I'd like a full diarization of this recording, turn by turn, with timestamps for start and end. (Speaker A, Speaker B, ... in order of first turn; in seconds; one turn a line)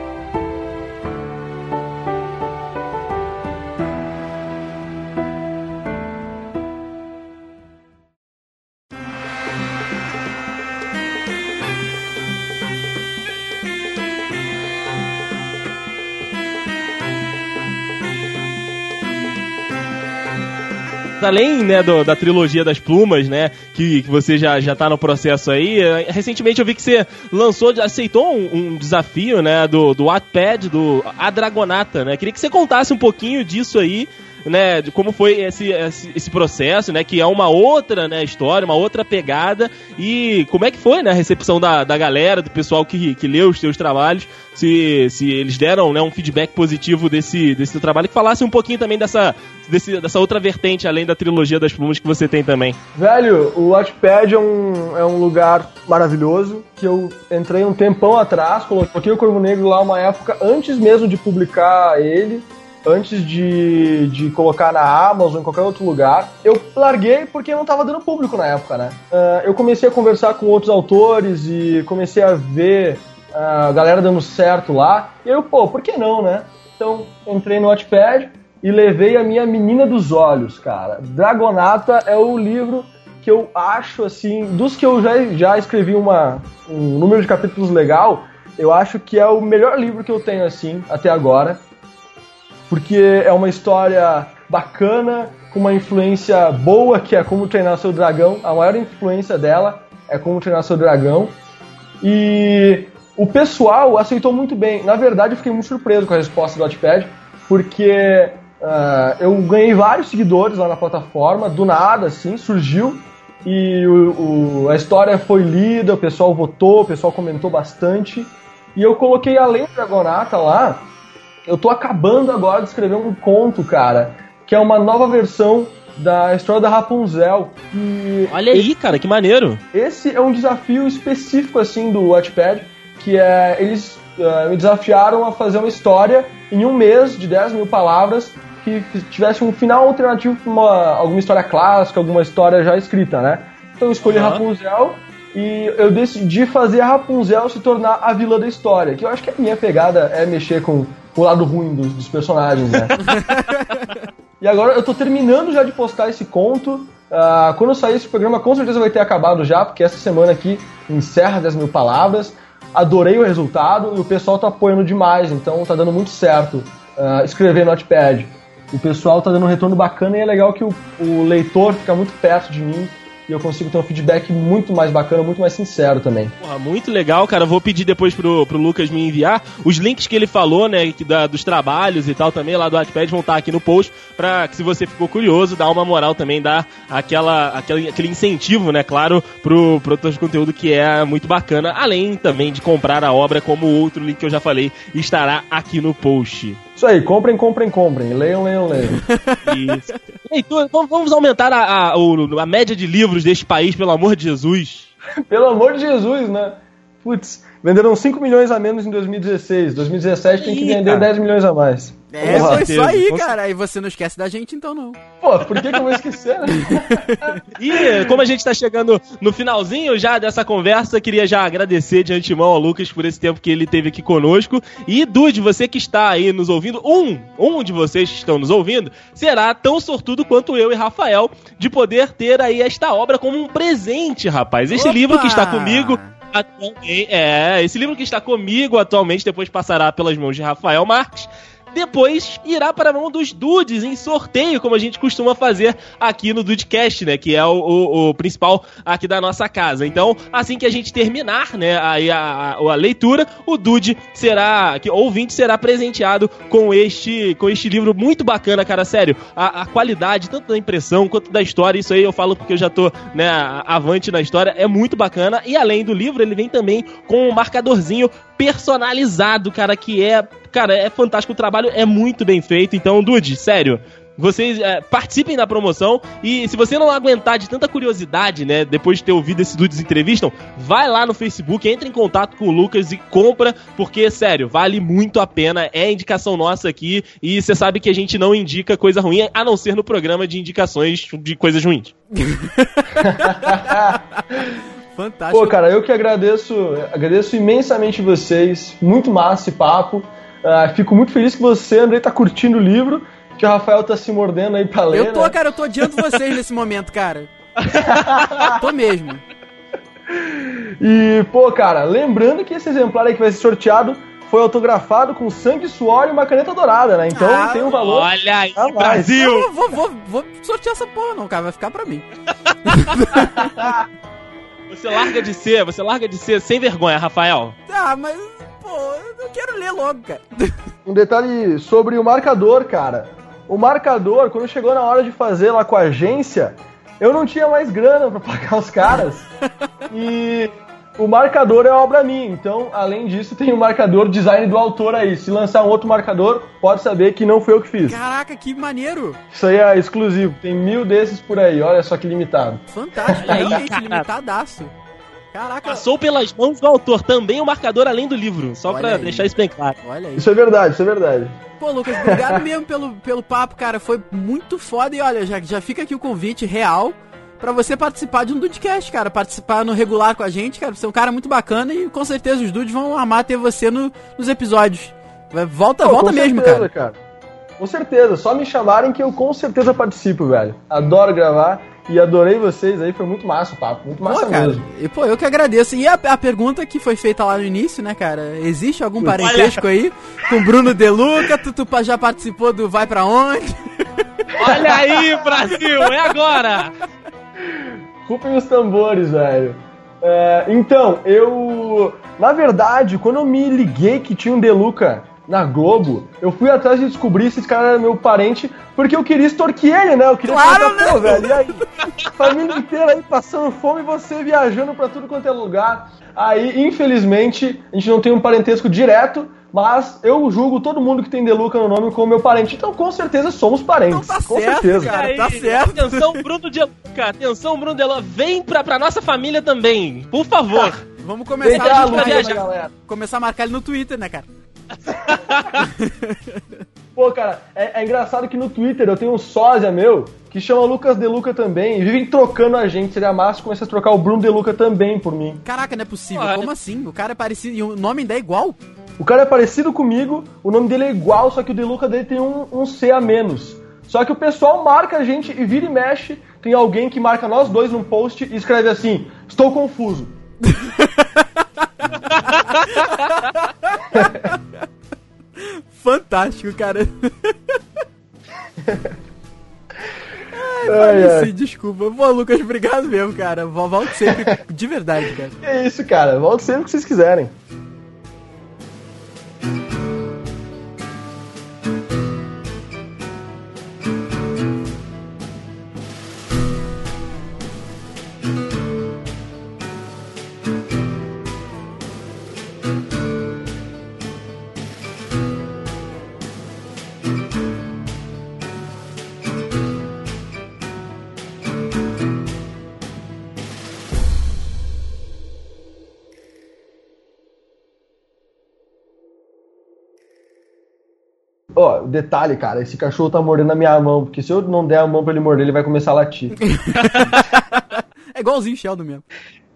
Speaker A: 21.2-52.8
Speaker B: 52.9-91.6
Speaker B: 92.7-101.3
Speaker B: 102.0-120.9
Speaker B: 121.5-128.7
Speaker A: 128.3-129.6
Speaker B: 129.7-153.2
Speaker A: 144.0-144.4
Speaker C: 153.1-154.0
Speaker B: 154.4-176.3
Speaker A: 176.4-196.6
Speaker B: 196.8-199.0
Speaker C: 198.8-200.0
Speaker A: 199.4-204.9
Speaker B: 205.3-212.7
Speaker A: 210.4-211.1
Speaker C: 212.1-215.0
Speaker A: 212.2-213.3
Speaker B: 215.2-218.2
Speaker C: 216.5-217.4
Speaker A: 217.5-291.9
Speaker C: 234.7-236.2
Speaker C: 292.1-295.6
Speaker B: 293.0-294.5
Speaker B: 295.3-305.4
Speaker C: 304.9-307.3
Speaker B: 307.6-308.6
Speaker C: 308.4-309.2
Speaker B: 310.1-319.2
Speaker C: 317.1-317.7
Speaker A: 317.7-319.5
Speaker C: 319.1-322.1
Speaker C: 322.6-323.7
Speaker A: 322.9-323.4
Speaker A: 324.7-327.6
Speaker C: 327.7-330.6
Speaker B: 330.9-339.3
Speaker B: 339.9-348.0
Speaker C: 347.9-349.2
Speaker B: 349.3-353.5
Speaker C: 352.7-354.7
Speaker A: 353.2-354.1
Speaker C: 355.3-355.9
Speaker A: 355.6-359.8
Speaker C: 358.7-360.3
Speaker B: 360.2-362.4
Speaker C: 361.6-376.7
Speaker B: 375.8-377.0
Speaker B: 377.6-384.6
Speaker C: 384.0-394.7
Speaker A: 389.2-389.6
Speaker B: 394.4-395.0
Speaker A: 394.4-396.7
Speaker B: 397.4-424.9
Speaker C: 410.2-411.9
Speaker C: 423.9-426.2
Speaker A: 424.8-430.8
Speaker C: 431.0-434.2
Speaker B: 431.4-432.7
Speaker A: 431.5-432.4
Speaker A: 434.9-435.6
Speaker C: 435.5-436.6
Speaker B: 436.9-445.4
Speaker C: 445.4-448.6
Speaker A: 446.1-446.5
Speaker B: 449.0-460.1
Speaker C: 460.4-464.5
Speaker A: 462.1-462.9
Speaker B: 463.9-464.3
Speaker C: 465.4-467.6
Speaker B: 468.6-468.9
Speaker C: 470.3-475.4
Speaker B: 470.6-471.3
Speaker B: 474.0-474.4
Speaker B: 475.4-477.3
Speaker B: 511.5-516.4
Speaker C: 516.4-519.0